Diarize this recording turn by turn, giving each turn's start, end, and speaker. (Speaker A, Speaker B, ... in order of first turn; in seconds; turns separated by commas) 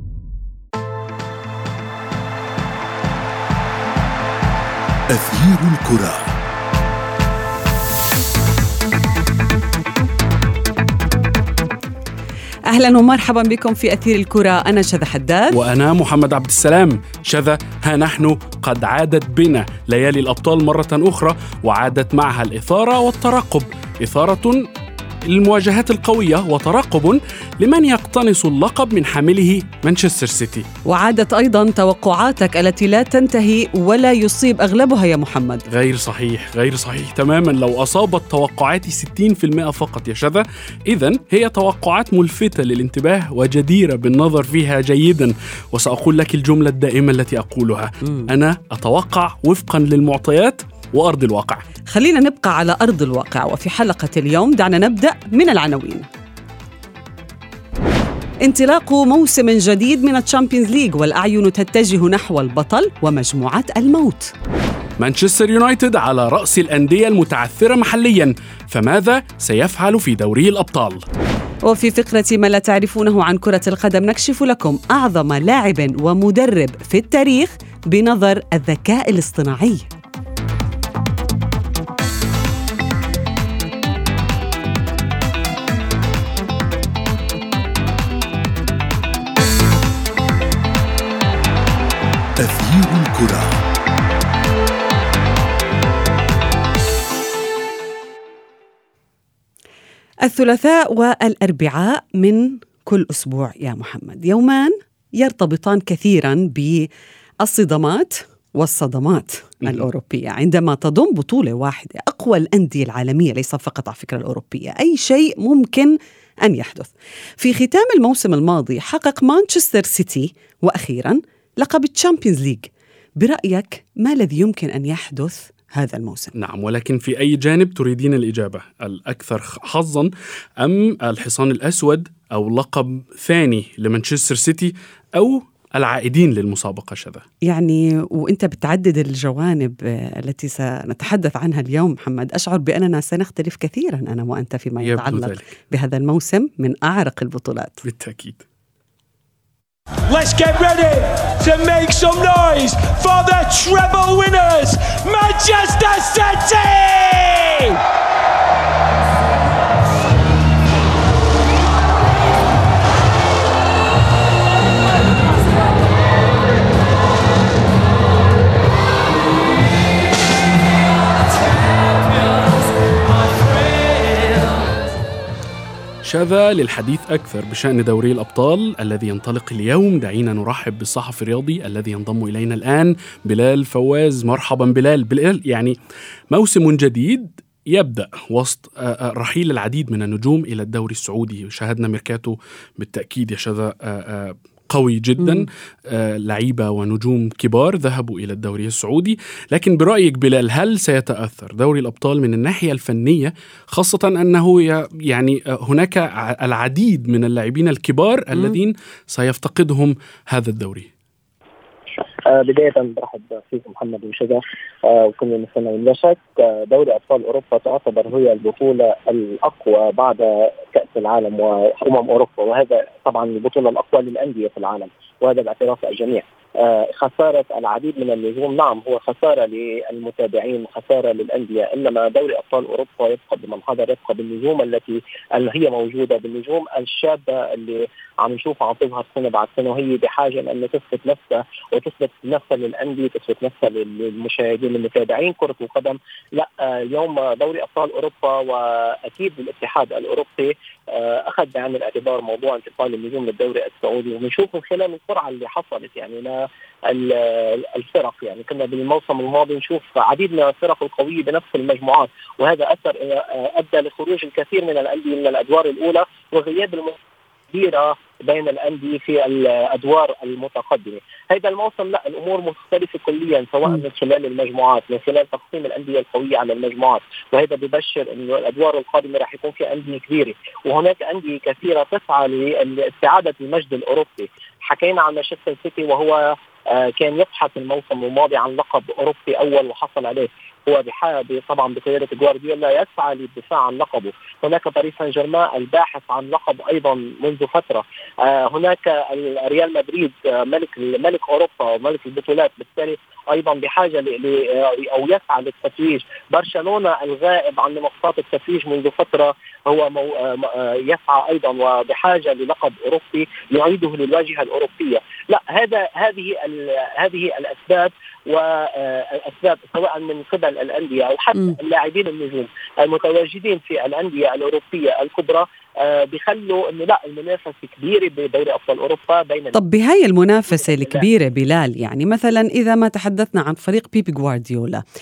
Speaker A: 5.1-6.3, Speaker B: 12.7-15.6, Speaker C: 15.5-24.7, Speaker C: 25.2-30.7, Speaker B: 30.8-35.6, Speaker C: 35.7-51.6, Speaker B: 51.9-56.1, Speaker B: 58.4-64.3, Speaker C: 65.0-71.0, Speaker B: 71.7-79.9, Speaker A: 92.4-93.6, Speaker B: 100.2-106.9, Speaker B: 107.4-126.3, Speaker C: 126.3-137.2, Speaker B: 137.4-147.8, Speaker C: 144.8-145.4, Speaker C: 147.8-148.4, Speaker D: 150.1-157.8, Speaker C: 176.0-185.8, Speaker C: 186.3-210.9, Speaker E: 212.2-267.0, Speaker E: 267.5-329.6, Speaker B: 329.5-334.8, Speaker E: 330.5-331.1